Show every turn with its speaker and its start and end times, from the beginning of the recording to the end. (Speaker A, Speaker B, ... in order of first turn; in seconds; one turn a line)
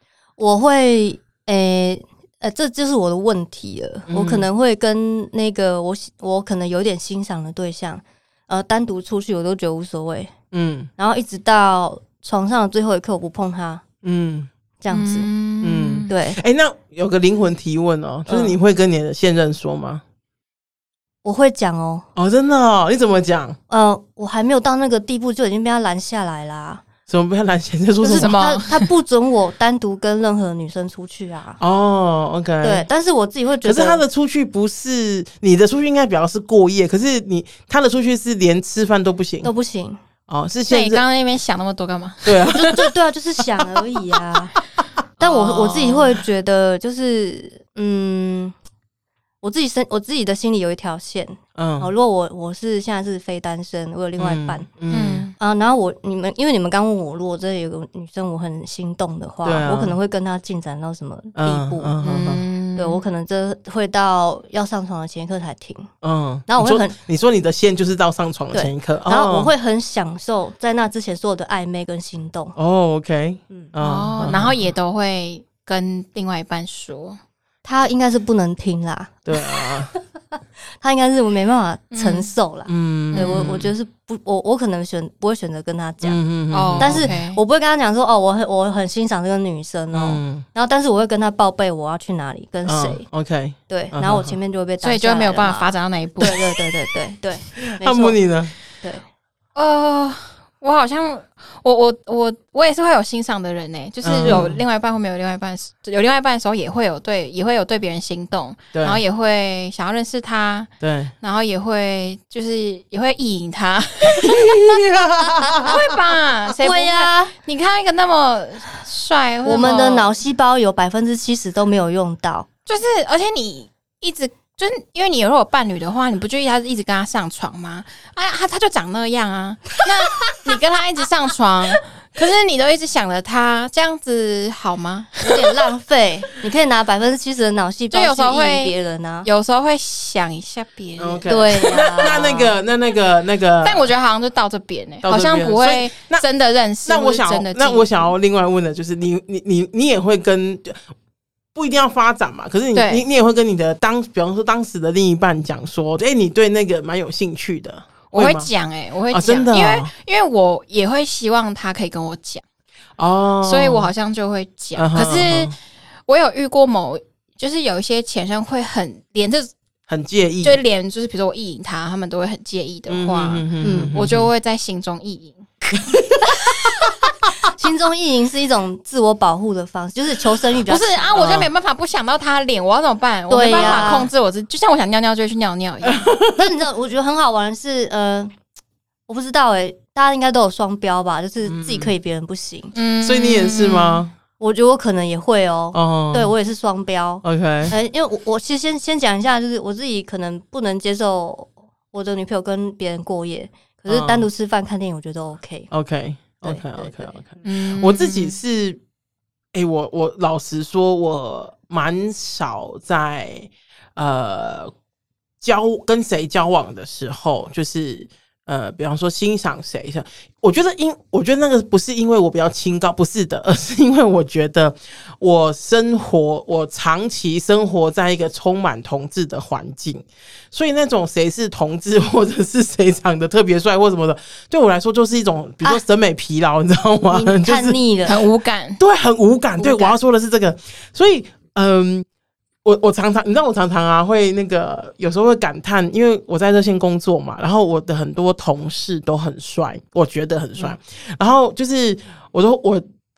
Speaker A: 0.4-10.3
Speaker B: 4.1-4.5
Speaker B: 10.5-10.9
Speaker A: 11.0-13.8
Speaker B: 14.0-14.5
Speaker A: 14.8-15.3
Speaker C: 14.9-16.1
Speaker B: 15.6-20.0
Speaker A: 16.1-16.4
Speaker A: 18.3-18.6
Speaker A: 21.2-22.1
Speaker B: 22.1-23.6
Speaker A: 23.7-26.8
Speaker B: 27.1-28.4
Speaker A: 28.0-31.6
Speaker C: 28.1-28.9
Speaker B: 31.6-32.9
Speaker A: 32.6-34.0
Speaker B: 33.6-39.5
Speaker A: 39.4-40.0
Speaker B: 40.3-41.0
Speaker C: 40.7-42.9
Speaker B: 42.2-42.9
Speaker A: 42.7-44.5
Speaker C: 45.2-46.0
Speaker A: 45.2-48.6
Speaker B: 45.7-46.0
Speaker A: 49.4-54.7
Speaker B: 51.6-51.9
Speaker B: 54.2-55.2
Speaker C: 54.9-55.4
Speaker A: 55.4-62.0
Speaker B: 59.4-60.0
Speaker B: 61.4-62.5
Speaker C: 62.0-63.1
Speaker A: 62.8-65.9
Speaker B: 66.0-69.5
Speaker A: 66.5-67.0
Speaker A: 68.5-72.5
Speaker B: 72.6-74.7
Speaker C: 73.8-77.2
Speaker A: 77.7-80.0
Speaker B: 79.2-79.9
Speaker A: 80.8-86.2
Speaker C: 81.9-82.3
Speaker B: 82.7-83.7
Speaker C: 83.1-83.5
Speaker B: 86.0-87.2
Speaker C: 86.5-87.4
Speaker A: 86.8-93.1
Speaker B: 89.9-90.5
Speaker B: 92.7-94.4
Speaker A: 93.7-98.2
Speaker C: 94.8-96.4
Speaker B: 97.6-98.5
Speaker C: 99.5-114.8
Speaker B: 104.0-104.6
Speaker A: 104.2-104.5
Speaker B: 108.7-109.0
Speaker B: 110.8-111.1
Speaker B: 114.2-115.8
Speaker C: 115.6-120.2
Speaker A: 116.6-117.3
Speaker A: 119.4-122.5
Speaker C: 122.7-135.6
Speaker A: 135.2-139.3
Speaker C: 137.9-142.2
Speaker B: 141.0-143.9
Speaker A: 141.3-142.6
Speaker C: 143.6-148.1
Speaker B: 145.0-146.2
Speaker B: 146.8-150.8
Speaker B: 151.6-158.5
Speaker C: 152.7-153.1
Speaker C: 158.1-162.4
Speaker B: 159.1-159.9
Speaker B: 163.0-163.9
Speaker C: 163.4-165.5
Speaker B: 164.8-165.5
Speaker C: 166.1-169.5
Speaker B: 169.9-170.6
Speaker C: 170.4-176.8
Speaker B: 172.9-174.3
Speaker A: 173.6-174.0
Speaker B: 176.0-176.4
Speaker A: 177.6-181.5
Speaker C: 180.7-186.1
Speaker B: 181.2-181.5
Speaker A: 183.3-184.1
Speaker B: 183.4-184.0
Speaker B: 185.8-186.5
Speaker A: 186.4-188.3
Speaker A: 189.1-192.8
Speaker B: 191.4-191.9
Speaker C: 192.8-194.1
Speaker B: 193.0-194.1
Speaker A: 194.4-205.7
Speaker B: 195.7-196.3
Speaker B: 197.2-197.8
Speaker B: 203.9-204.3
Speaker B: 205.7-208.8
Speaker A: 206.4-207.2
Speaker C: 207.4-208.4
Speaker B: 209.5-214.7
Speaker B: 215.4-237.8
Speaker A: 237.1-238.2
Speaker C: 238.1-238.8
Speaker B: 238.8-242.1
Speaker A: 239.6-240.0
Speaker B: 242.6-252.8